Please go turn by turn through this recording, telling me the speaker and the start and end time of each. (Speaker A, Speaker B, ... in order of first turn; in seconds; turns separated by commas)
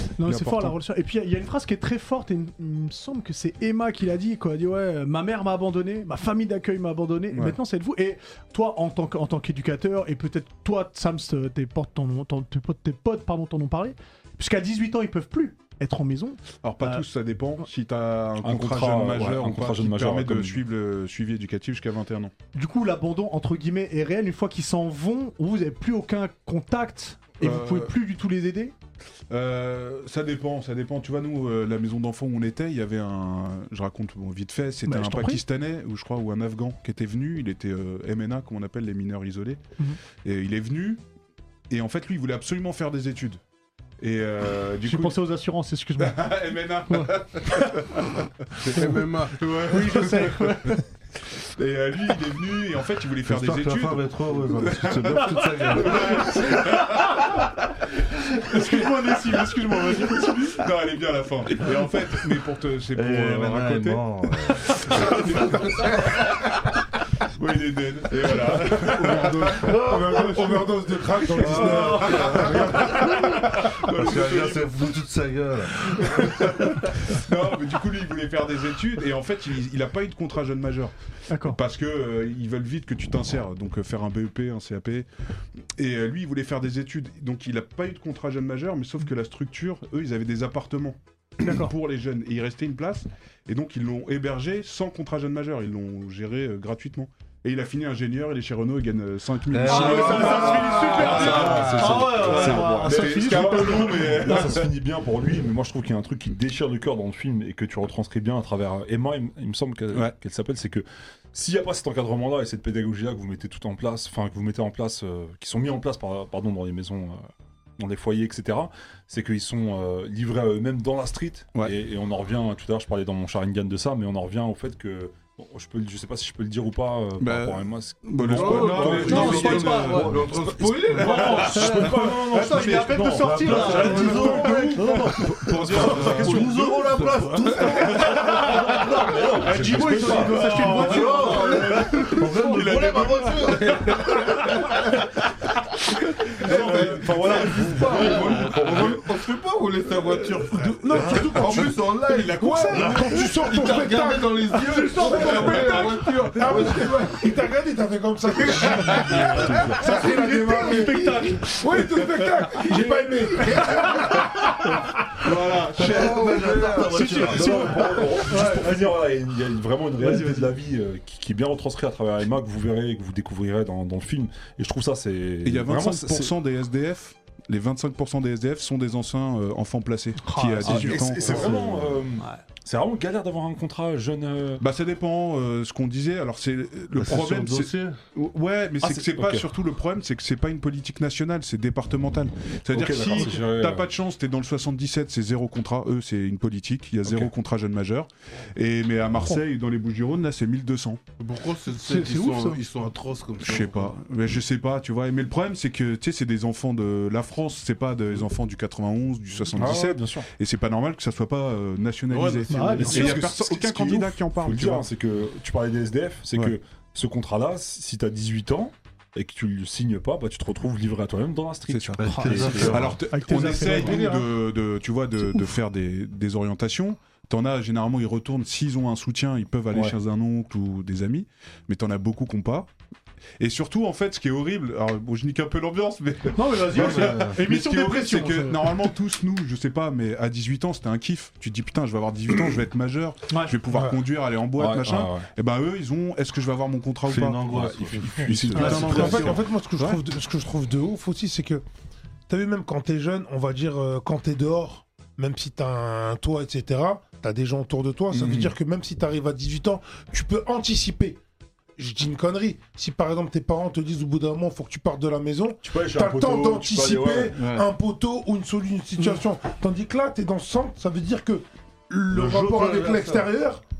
Speaker A: 0.2-17.0, Speaker B: 0.2-0.8, Speaker B: 7.3-7.6, Speaker B: 16.6-22.3, Speaker C: 18.4-20.6, Speaker A: 22.5-28.7, Speaker B: 27.4-27.9, Speaker B: 29.3-39.6, Speaker A: 34.9-35.4, Speaker B: 40.2-41.0, Speaker B: 41.7-43.4, Speaker B: 44.0-45.2, Speaker A: 44.9-47.2, Speaker B: 46.0-50.8, Speaker D: 48.6-49.4, Speaker A: 49.7-50.9, Speaker B: 51.4-57.4, Speaker E: 53.2-56.5, Speaker A: 56.8-57.2, Speaker B: 58.4-66.4, Speaker A: 58.4-60.6, Speaker E: 63.0-66.0, Speaker B: 67.3-74.9, Speaker E: 68.9-70.5, Speaker F: 69.6-73.3, Speaker E: 71.4-76.5, Speaker B: 75.8-85.1, Speaker A: 81.3-81.6, Speaker B: 85.8-104.7, Speaker A: 91.4-91.7, Speaker E: 99.5-102.2, Speaker C: 99.7-117.3, Speaker A: 99.7-104.1, Speaker C: 117.8-134.2, Speaker B: 127.2-138.6, Speaker D: 128.0-131.6, Speaker A: 129.0-130.1, Speaker A: 131.0-135.0, Speaker D: 133.2-144.9, Speaker C: 135.7-136.3, Speaker C: 138.7-140.8, Speaker B: 139.4-144.7, Speaker A: 139.6-142.1, Speaker E: 141.0-141.4, Speaker E: 142.1-143.5, Speaker B: 146.3-149.1, Speaker C: 146.4-149.1, Speaker D: 146.4-157.4, Speaker A: 150.6-151.8, Speaker B: 151.5-153.1, Speaker F: 152.5-154.4, Speaker A: 152.6-153.2, Speaker A: 154.7-156.4, Speaker F: 155.0-155.8, Speaker B: 155.2-156.2, Speaker F: 156.4-164.3, Speaker D: 158.5-160.9, Speaker A: 158.6-164.3, Speaker B: 158.8-159.5, Speaker B: 165.2-167.0, Speaker D: 165.8-167.9, Speaker E: 165.9-167.6, Speaker A: 166.8-169.0, Speaker C: 167.3-176.3, Speaker A: 170.0-170.5, Speaker B: 175.4-182.0, Speaker A: 180.2-181.1, Speaker C: 180.6-184.6, Speaker B: 184.6-201.0, Speaker E: 187.0-188.0, Speaker C: 188.8-189.4, Speaker C: 192.7-193.8, Speaker D: 201.2-203.9, Speaker A: 201.8-202.6, Speaker B: 203.4-214.9, Speaker C: 209.6-210.3, Speaker D: 212.1-213.4, Speaker A: 212.5-213.2, Speaker C: 212.8-223.0, Speaker B: 221.7-232.7, Speaker E: 222.0-223.0, Speaker A: 222.1-224.3, Speaker D: 222.1-222.7, Speaker B: 233.4-247.4, Speaker A: 236.3-238.8, Speaker E: 236.7-237.4, Speaker A: 243.3-243.6, Speaker C: 244.6-245.3, Speaker E: 247.1-249.3, Speaker C: 247.5-249.4, Speaker B: 248.0-250.0, Speaker A: 248.6-249.0, Speaker F: 248.9-251.6, Speaker F: 252.3-261.2, Speaker C: 258.1-258.5, Speaker F: 261.8-273.6, Speaker C: 265.6-267.4, Speaker B: 267.4-267.7, Speaker E: 272.1-273.3